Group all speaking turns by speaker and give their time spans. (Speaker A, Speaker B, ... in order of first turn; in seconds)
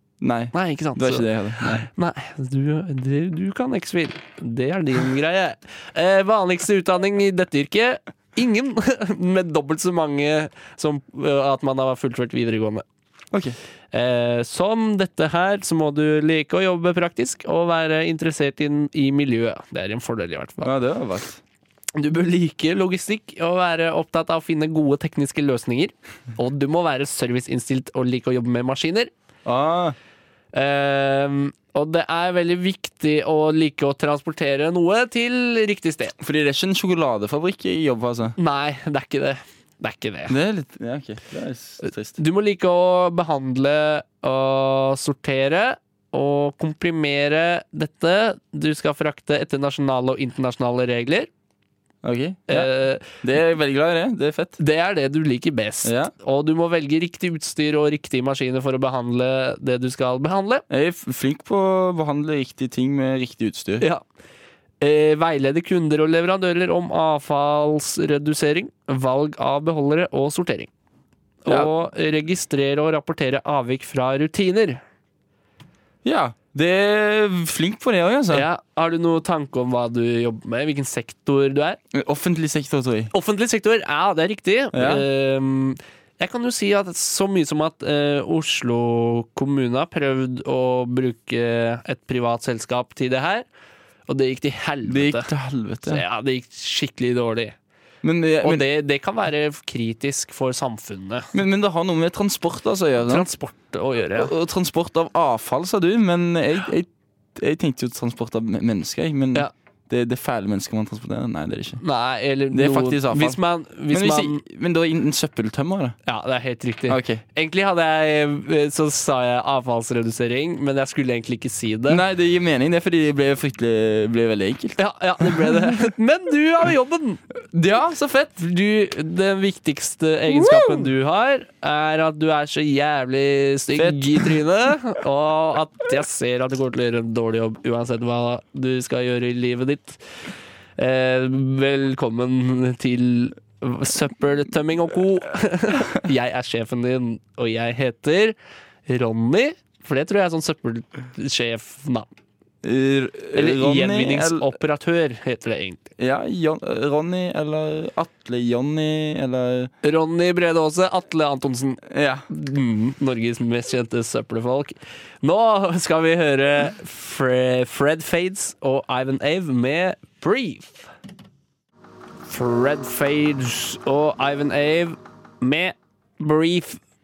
Speaker A: 0.2-1.9, 20.6-21.4, 29.4-30.0, 36.2-38.4, 40.3-42.2, 52.0-54.6, 55.8-56.1, 60.7-63.9, 76.0-78.5, 81.9-83.1, 84.7-85.0, 94.9-96.0, 98.0-98.7, 101.3-103.3, 104.2-111.8, 112.5-116.0, 116.9-117.2, 121.9-125.8, 127.5-128.4, 130.3-130.9, 133.8-134.3, 152.6-154.5, 156.0-159.7, 161.9-162.2
Speaker B: 0.5-12.8, 13.9-20.7, 21.9-29.1, 30.5-36.1, 38.4-40.4, 41.8-51.3, 52.5-53.1, 54.6-60.6, 64.8-70.7, 71.4-74.8, 78.3-81.8, 83.1-93.5, 94.1-95.3, 95.8-97.5, 98.4-101.3, 103.1-104.3, 111.8-114.4, 116.1-122.0, 124.8-127.2, 128.4-140.0, 140.8-148.4, 148.9-152.1, 153.3-155.9, 159.8-170.9, 172.3-176.8